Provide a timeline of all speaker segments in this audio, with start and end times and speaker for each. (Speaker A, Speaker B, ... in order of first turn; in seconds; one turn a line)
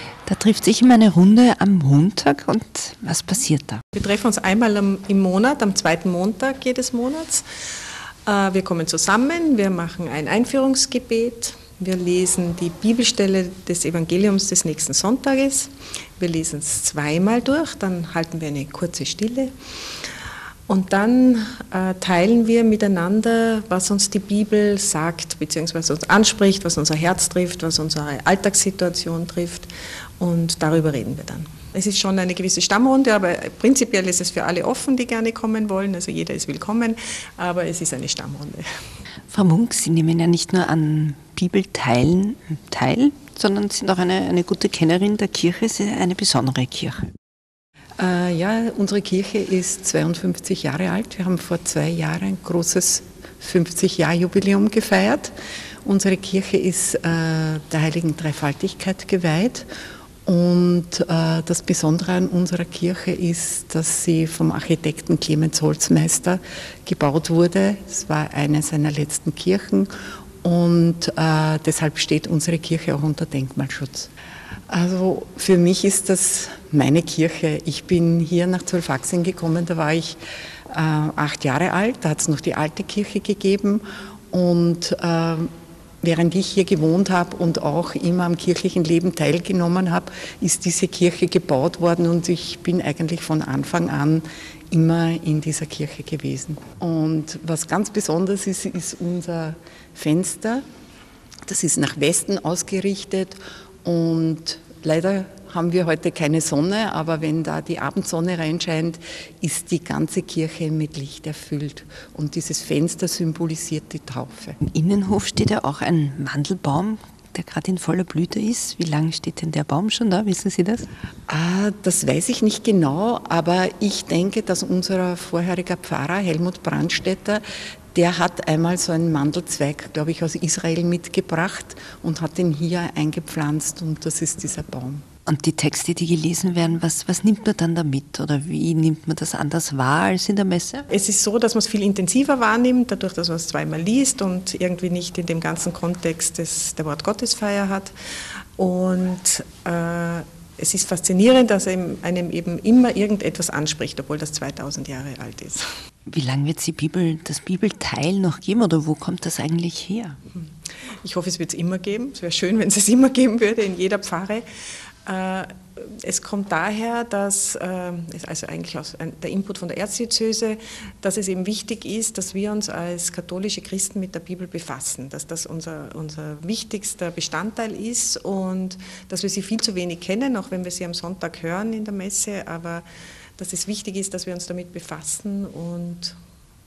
Speaker A: 0.3-3.8
Speaker B: 4.0-7.4
Speaker B: 8.3-19.5
Speaker B: 20.7-38.6
Speaker A: 39.3-47.1
Speaker C: 48.0-59.7
Speaker C: 60.2-69.9
Speaker C: 70.4-74.1
Speaker C: 74.7-80.2
Speaker C: 80.7-85.5
Speaker C: 86.0-100.6
Speaker C: 101.5-114.6
Speaker A: 114.7-120.9
Speaker C: 121.3-127.4
Speaker C: 127.9-135.0
Speaker A: 135.3-140.9
Speaker B: 140.9-147.9
Speaker B: 148.6-155.7
Speaker A: 156.1-160.2
Speaker B: 160.3-164.5
Speaker B: 165.1-182.9
Speaker B: 183.4-186.2